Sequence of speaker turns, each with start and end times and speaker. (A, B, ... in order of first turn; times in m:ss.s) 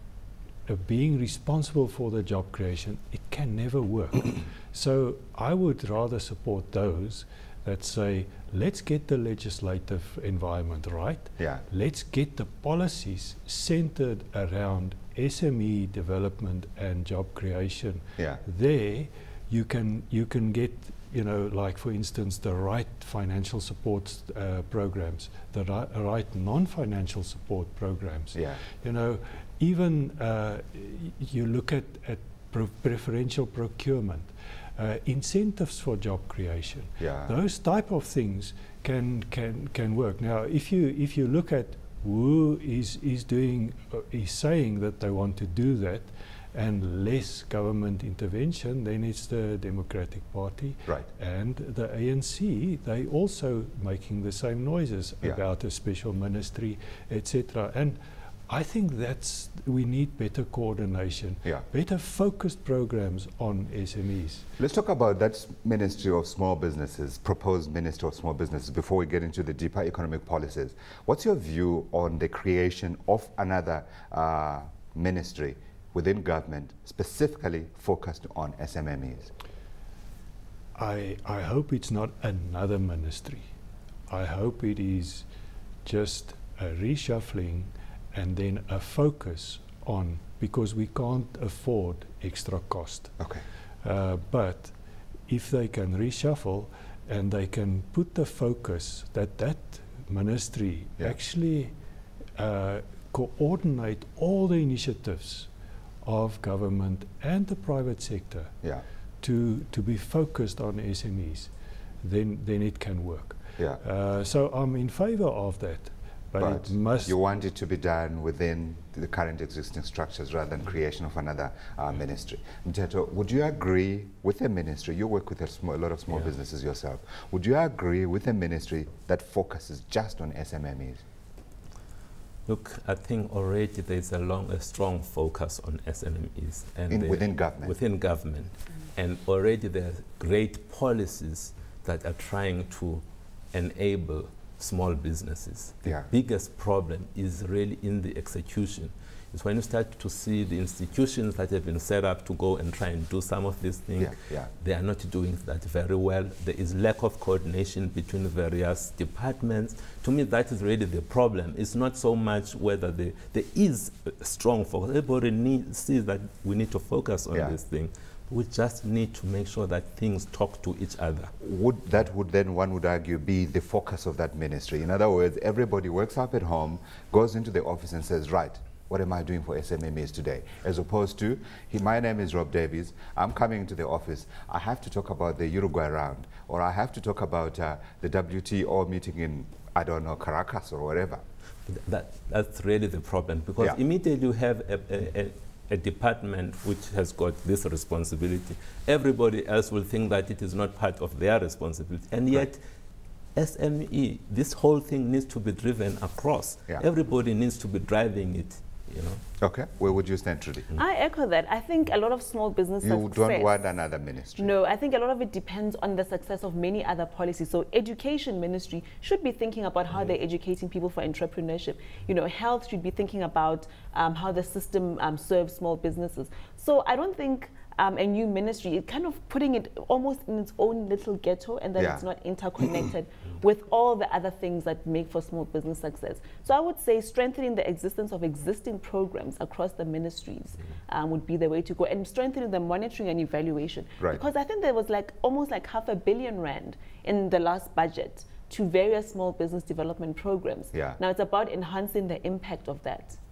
0:00.7-1:04.5 A
0:37.0-0:37.3 B
1:04.6-1:19.3 B
1:20.8-1:23.4 A
1:24.1-1:25.3 A
1:25.8-1:33.2 A
1:33.8-1:34.7 A
1:35.3-1:41.7 A
1:42.4-1:45.5 A
1:46.0-1:48.6 A
1:49.2-1:57.2 A
1:56.4-2:11.0 B
2:12.5-2:51.3 C
2:16.9-2:17.8 B
2:34.0-2:34.5 B
2:51.4-3:11.2 B
3:11.7-3:22.6 C
3:23.4-3:29.2 C
3:29.4-3:30.7 B
3:30.8-3:33.6 D
3:32.8-3:34.5 B
3:34.4-4:13.2 D
3:51.8-3:52.0 B
4:10.7-4:11.0 B